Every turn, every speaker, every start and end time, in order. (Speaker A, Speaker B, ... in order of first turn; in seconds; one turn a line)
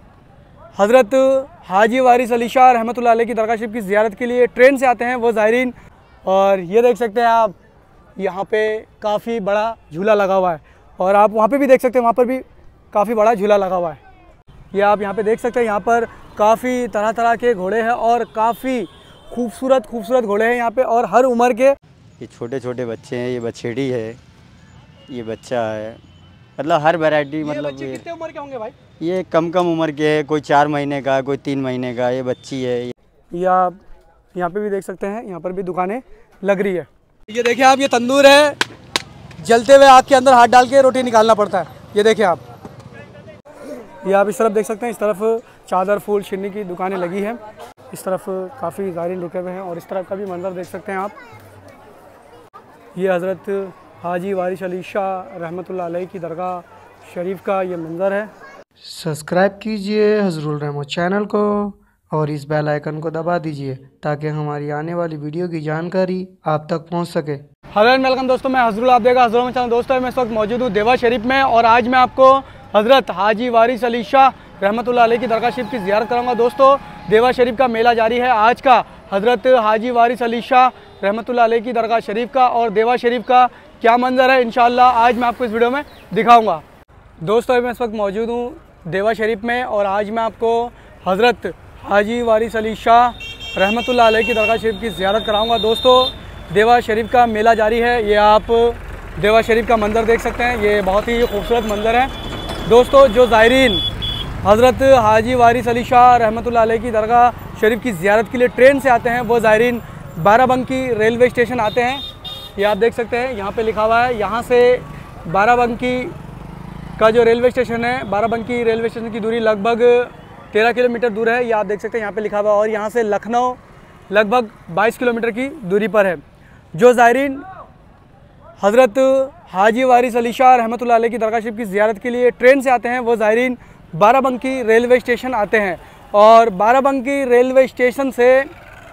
Speaker A: 0.8-5.7
Speaker A: 6.2-7.5
Speaker A: 8.2-14.0
Speaker A: 14.7-21.8
Speaker B: 22.2-24.2
Speaker B: 25.1-26.0
Speaker B: 26.6-28.0
Speaker A: 27.4-28.7
Speaker B: 29.0-32.9
Speaker A: 33.3-33.8
Speaker A: 34.3-38.6
Speaker A: 39.4-42.4
Speaker A: 44.0-47.4
Speaker A: 47.9-51.1
Speaker A: 52.9-58.3
Speaker C: 58.8-67.4
Speaker A: 67.7-86.6
Speaker A: 87.2-102.1
Speaker A: 102.6-103.8
Speaker A: 104.4-112.0
Speaker A: 112.5-116.1
Speaker A: 117.0-123.6
Speaker A: 124.1-126.2
Speaker A: 126.7-127.4
Speaker A: 128.6-138.5